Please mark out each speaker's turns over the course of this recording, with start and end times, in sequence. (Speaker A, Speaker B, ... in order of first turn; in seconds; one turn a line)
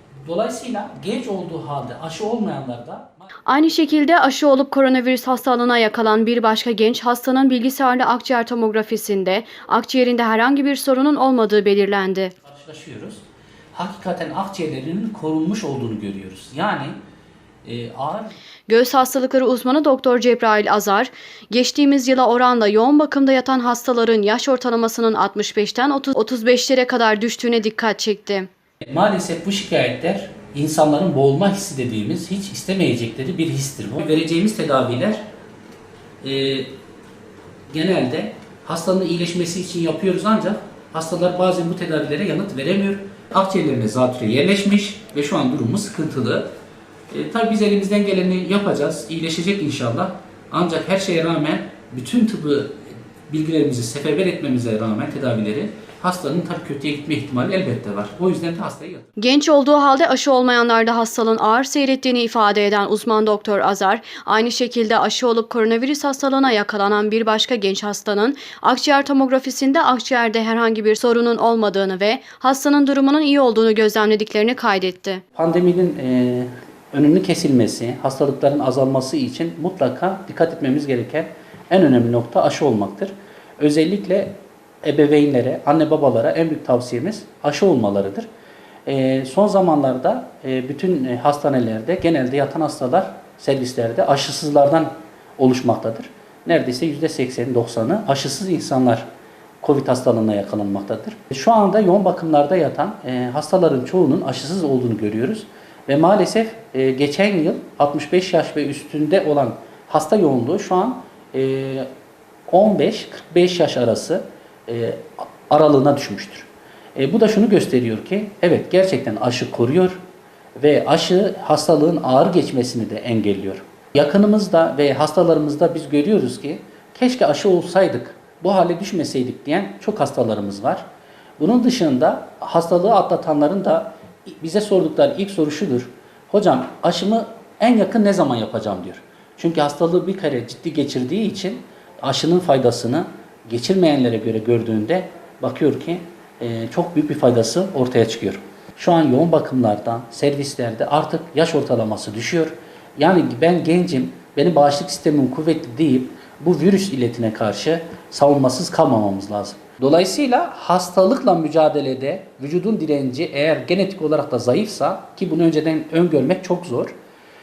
Speaker A: 0.2-3.2
Speaker B: 3.5-12.3
Speaker A: 12.4-13.2
Speaker A: 13.7-16.9
Speaker A: 17.6-18.3
Speaker B: 18.7-28.5
Speaker A: 28.9-35.2
Speaker A: 36.2-36.7
Speaker A: 37.7-46.5
Speaker A: 47.1-52.8
Speaker A: 53.3-59.1
Speaker B: 59.2-75.2
Speaker A: 75.3-88.3
Speaker A: 88.8-99.0
Speaker A: 99.6-111.9
Speaker A: 112.5-120.0
Speaker A: 120.6-130.8
Speaker A: 131.4-166.9